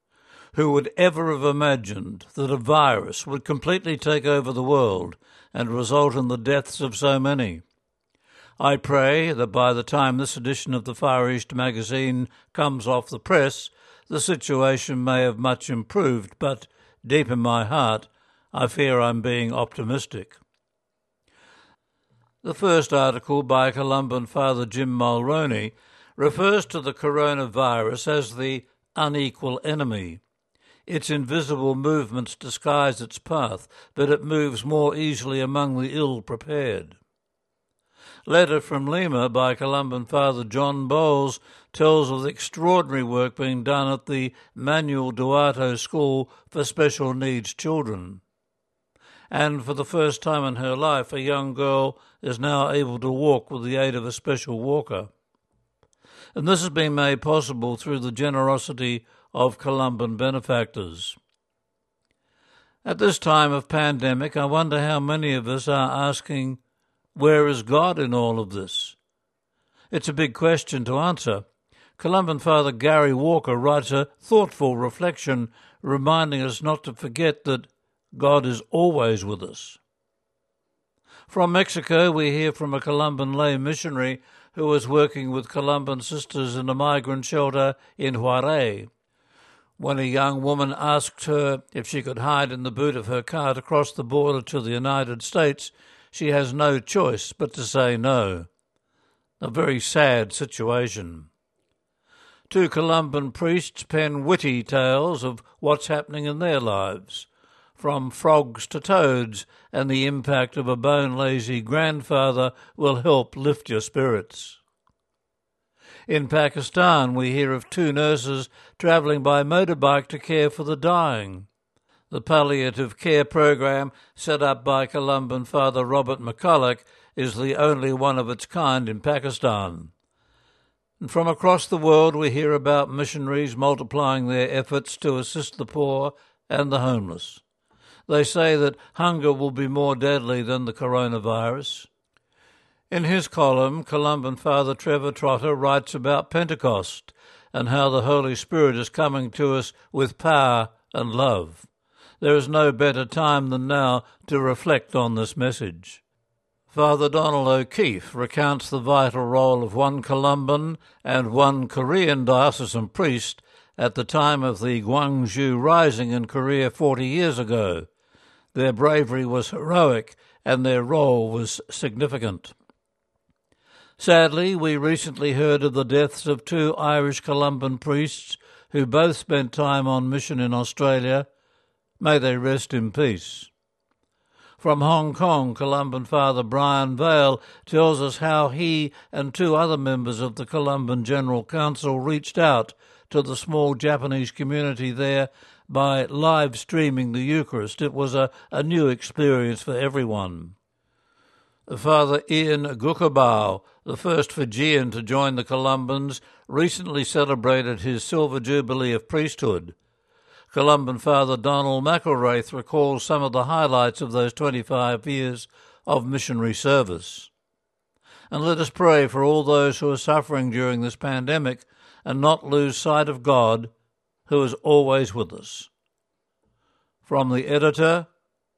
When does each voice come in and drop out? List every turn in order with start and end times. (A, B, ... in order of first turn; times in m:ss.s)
0:00.5-0:07.6 A
0:08.6-0:20.4 A
0:22.4-0:30.2 A
0:30.9-0:37.0 A
0:38.3-0:48.2 A
0:49.3-0:55.1 A
0:56.4-1:01.2 A
1:02.8-1:06.6 A
1:07.2-1:09.0 A
1:09.9-1:11.4 A
1:12.0-1:19.8 A
1:21.3-1:28.9 A
1:29.8-1:38.5 A
1:39.4-1:41.3 A
1:42.5-1:54.6 A
1:56.1-2:01.5 A
2:02.1-2:09.9 A
2:11.0-2:17.4 A
2:18.1-2:21.9 A
2:22.9-2:31.7 A
2:32.2-2:36.0 A
2:36.7-2:47.9 A
2:48.5-2:52.6 A
2:54.0-3:01.3 A
3:02.0-3:03.5 A
3:04.6-3:20.6 A
3:21.7-3:29.8 A
3:30.5-3:37.3 A
3:38.3-3:43.7 A
3:44.3-3:45.7 A
3:47.0-3:48.1 A